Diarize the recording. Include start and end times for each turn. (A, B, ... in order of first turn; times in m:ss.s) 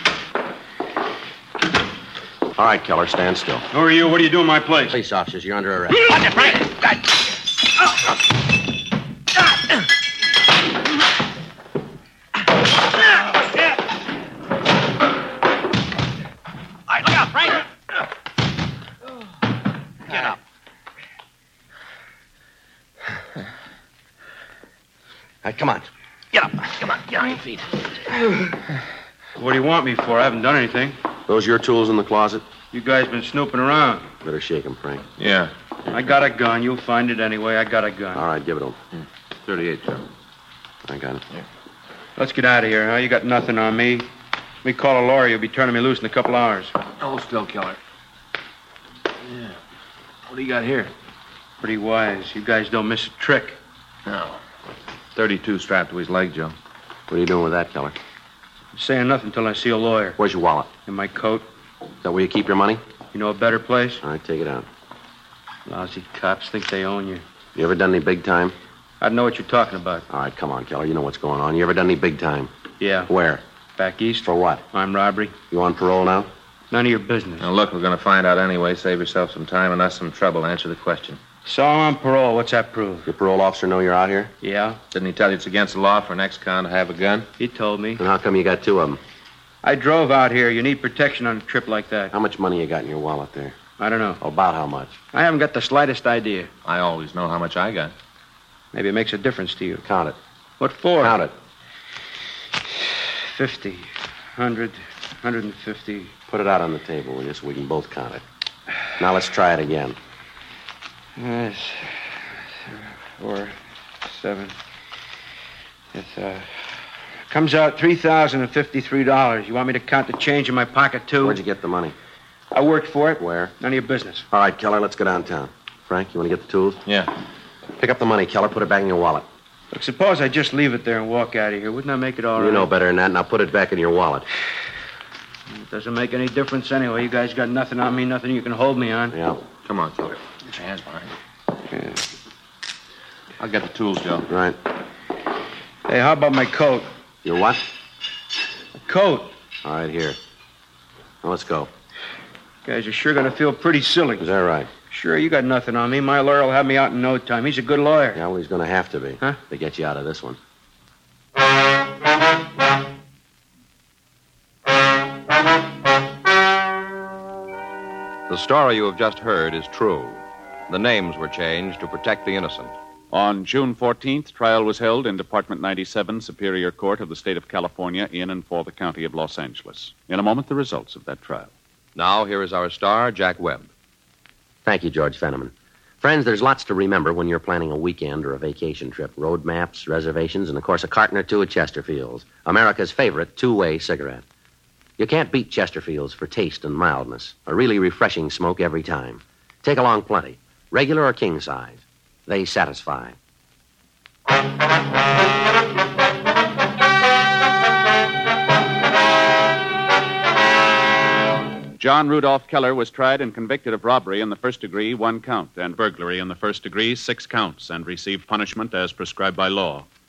0:02.6-0:03.6 A
0:03.7-0:05.0 B
0:04.9-0:06.2 A
0:25.4-0:27.4 A
0:29.4-0:31.0 B
0:31.3-0:32.4 A
0:32.7-0:34.1 B
0:34.2-0:35.0 A
0:35.2-0:35.5 C
0:35.9-0:38.2 B
0:38.1-0:38.8 A
0:39.0-0:40.0 C
0:40.8-0:41.2 A
0:42.2-0:44.1 B
0:44.6-0:46.8 B
0:47.0-0:47.8 C
0:49.2-0:49.5 C
0:50.3-0:50.9 C
0:51.6-0:53.6 B
0:54.0-0:54.4 C
0:55.1-0:56.5 C
0:57.1-0:58.0 A
0:58.7-1:00.2 B
1:00.2-1:00.7 A
1:00.8-1:01.5 B
1:02.0-1:02.8 A
1:03.1-1:04.0 B
1:04.0-1:04.6 A
1:05.6-1:07.2 B
1:07.5-1:08.6 A
1:09.0-1:10.0 B
1:10.1-1:12.5 A
1:12.8-1:13.1 B
1:13.1-1:13.4 A
1:13.8-1:15.3 B
1:14.2-1:14.6 A
1:15.5-1:16.3 A
1:16.7-1:17.5 B
1:17.4-1:21.2 C
1:21.4-1:23.1 B
1:23.0-1:24.3 A
1:24.4-1:24.8 B
1:24.9-1:27.3 C
1:27.4-1:28.0 B
1:28.0-1:29.0 A
1:29.6-1:32.1 B
1:32.1-1:33.6 A
1:33.8-1:34.2 B
1:34.2-1:34.9 A
1:35.1-1:36.5 B
1:36.6-1:37.9 C
1:38.7-1:39.8 B
1:39.8-1:40.2 A
1:40.6-1:41.2 B
1:41.0-1:41.3 A
1:43.2-1:46.1 B
1:46.3-1:48.2 A
1:49.0-1:50.0 A
1:51.2-1:54.6 B
1:55.9-1:56.5 B
1:57.3-2:01.4 B
2:01.2-2:01.9 A
2:02.5-2:04.3 B
2:03.2-2:03.5 A
2:04.3-2:06.8 A
2:06.8-2:07.1 C
2:07.8-2:09.2 A
2:09.7-2:12.7 B
2:12.4-2:14.2 A
2:15.5-2:19.2 B
2:19.1-2:19.4 A
2:19.6-2:21.1 C
2:21.7-2:22.0 B
2:23.4-2:24.3 C
2:24.3-2:24.6 A
2:25.8-2:26.9 B
2:27.2-2:27.6 A
2:28.8-2:29.3 B
2:29.6-2:30.2 A
2:31.2-2:31.7 A
2:32.6-2:34.3 B
2:34.2-2:34.7 A
2:34.9-2:38.2 B
2:38.1-2:40.4 A
2:48.3-2:52.7 D
2:53.1-3:01.5 E
3:01.9-3:03.7 D
3:04.6-3:14.2 A
3:15.0-3:23.2 A
3:31.8-3:39.8 E